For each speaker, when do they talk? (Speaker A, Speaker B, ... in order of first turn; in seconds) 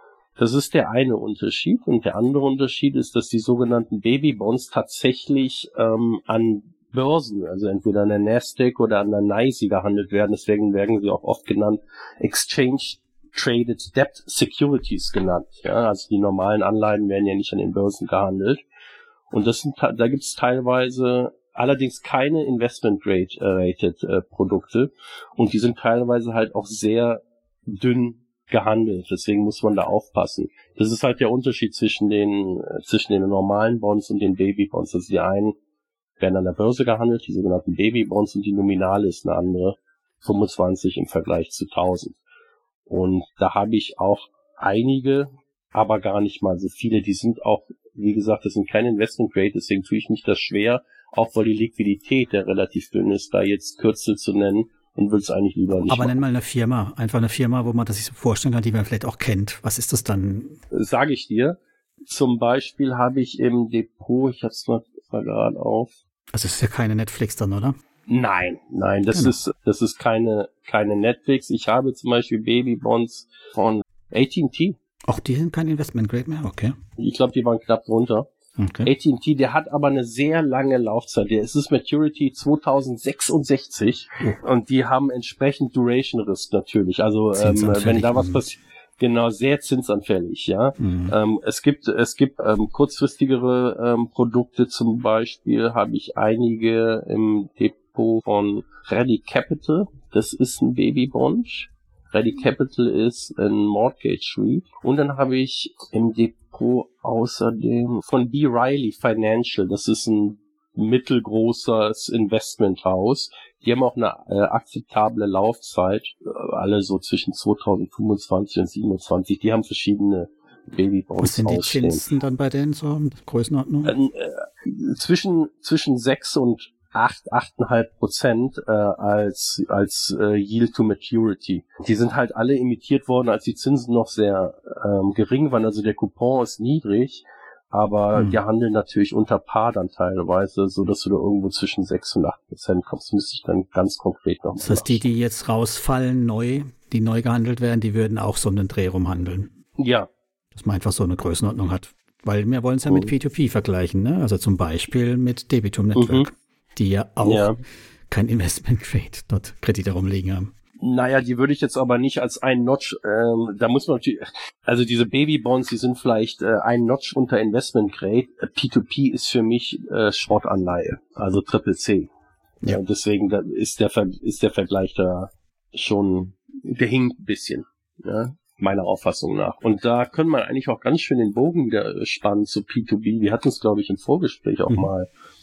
Speaker A: 0.4-18.6, 19.3-35.5, 36.2-42.2, 42.9-56.2, 60.7-66.0, 68.1-74.8, 77.0-78.3, 78.8-122.0, 123.8-145.0, 149.8-150.1, 152.9-153.1, 155.9-156.3, 157.2-157.6, 160.8-172.1, 172.7-185.1
Speaker B: 55.9-60.6, 66.3-67.8, 75.0-76.8, 78.6-78.9, 87.3-88.4, 90.8-91.2, 121.2-124.0, 144.6-149.5, 150.5-157.6, 158.1-160.5